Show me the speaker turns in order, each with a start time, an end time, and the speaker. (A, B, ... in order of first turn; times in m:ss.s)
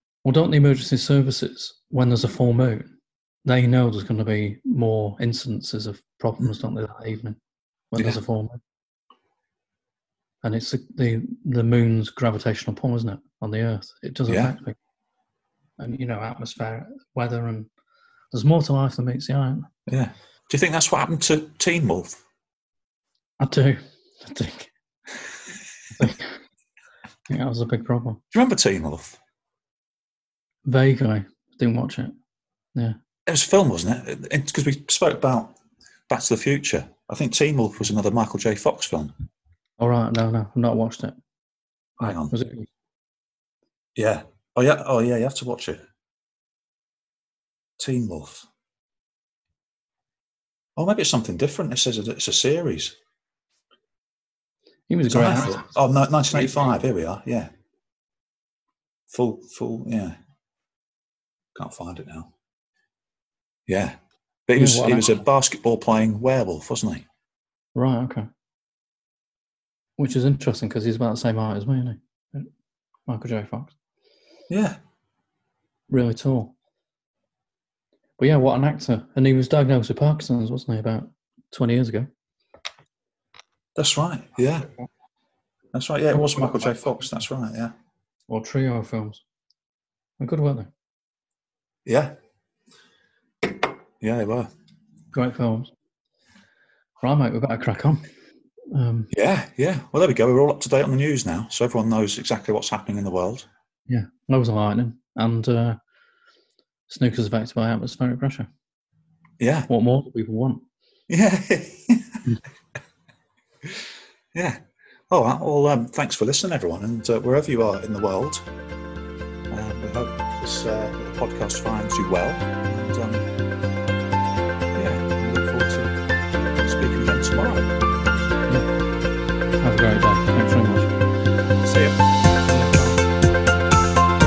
0:00.2-0:07.4 A
0:07.9-0:08.6 A
0:10.4-0:14.8 A
0:14.3-0:14.5 B
0:15.8-0:17.7 A
0:18.3-0:19.7 A
0:19.9-0:22.2 B
0:23.4-0:24.7 A
0:26.0-0:26.4 A
0:27.3-0:28.2 A
0:28.3-0:29.2 B
0:30.7-0:32.1 A
0:33.3-0:35.6 B
0:36.1-0:39.1 B
0:39.8-0:41.2 A
0:42.0-0:42.3 B
0:42.0-0:42.7 A
0:44.0-0:45.8 B
0:47.8-0:48.5 B
0:50.8-0:53.0 B
0:54.9-0:55.6 A
0:55.1-0:57.5 B
0:59.1-1:00.2 B
1:01.6-1:02.3 B
1:03.7-1:04.0 B
1:04.5-1:07.0 B
1:04.5-1:05.2 A
1:07.8-1:08.3 A
1:10.0-1:12.5 A
1:13.1-1:13.8 A
1:14.5-1:14.8 B
1:15.9-1:16.5 A
1:18.2-1:22.1 A
1:23.8-1:24.7 B
1:25.7-1:27.7 B
1:26.1-1:26.9 A
1:28.3-1:29.2 A
1:30.2-1:30.7 A
1:31.9-1:32.2 B
1:34.0-1:34.5 B
1:35.1-1:35.7 A
1:37.0-1:38.1 A
1:38.7-1:39.1 A
1:39.1-1:43.5 B
1:43.9-1:45.8 A
1:46.9-1:48.5 A
1:49.4-1:49.7 B
1:49.7-1:50.6 A
1:51.1-1:52.2 B
1:54.3-1:54.6 B
1:55.1-1:58.4 B
1:59.5-2:03.3 B
2:04.7-2:06.0 B
2:06.6-2:07.7 B
2:09.6-2:10.9 A
2:11.6-2:12.0 B
2:12.4-2:13.0 A